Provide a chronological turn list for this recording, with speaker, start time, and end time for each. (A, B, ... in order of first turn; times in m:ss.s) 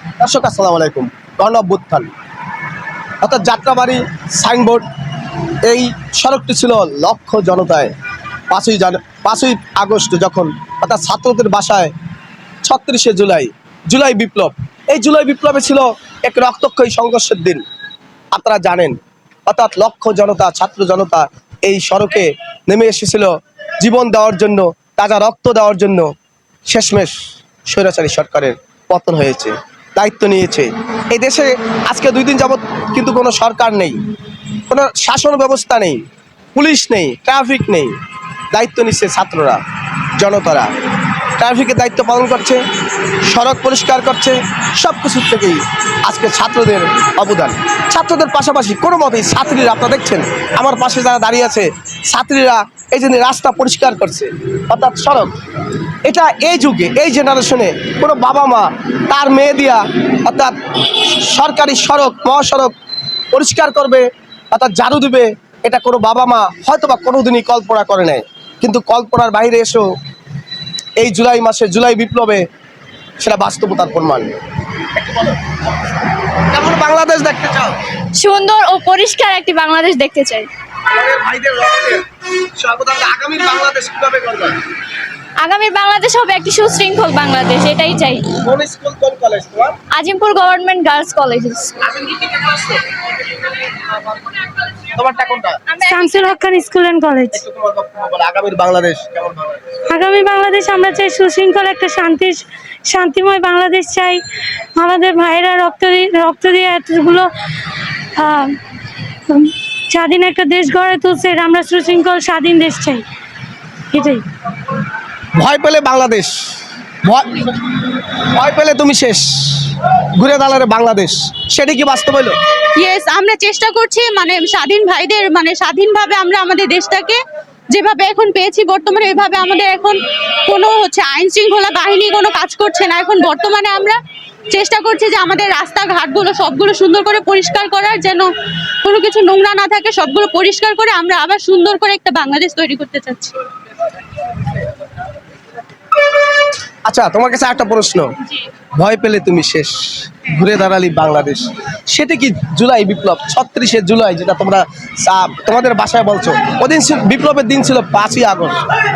0:00.2-0:02.1 A
0:03.2-0:04.8 A
0:05.6-0:07.9 A
0:08.5-0:11.9 A
0:12.6-0:17.6 A
0:18.3-0:19.0 A
0:19.5-0:26.1 A
0:26.7-0:27.1 A
0:27.7-0:34.0 A
0:34.7-0:36.0 A
0:36.5-0:37.9 A
0:38.5-0:39.6 A
0:40.2-0:40.7 A
0:41.4-0:42.6 A
0:43.3-0:55.3 A
0:56.1-1:02.7 A
1:03.3-1:09.8 A
1:11.0-1:12.4 A
1:13.2-1:14.3 A
1:15.0-1:15.5 A
1:16.5-1:17.8 A
1:18.2-1:20.5 B
1:20.9-1:22.0 A
1:22.6-1:24.6 A
1:25.4-1:28.3 B
1:28.4-1:29.8 A
1:29.9-1:31.8 B
1:31.8-1:32.8 A
1:34.8-1:35.6 A
1:35.7-1:36.4 B
1:35.8-1:37.4 C
1:37.3-1:39.6 A
1:39.9-1:44.2 C
1:44.8-1:47.3 C
1:48.2-1:48.6 C
1:49.3-1:53.0 C
1:53.9-1:54.2 C
1:55.4-1:56.3 A
1:57.0-1:57.5 A
1:58.3-2:02.4 A
2:02.8-2:07.2 D
2:07.7-2:14.0 D
2:14.5-2:18.3 D
2:18.8-2:23.4 D
2:26.8-2:28.1 A
2:28.7-2:38.6 A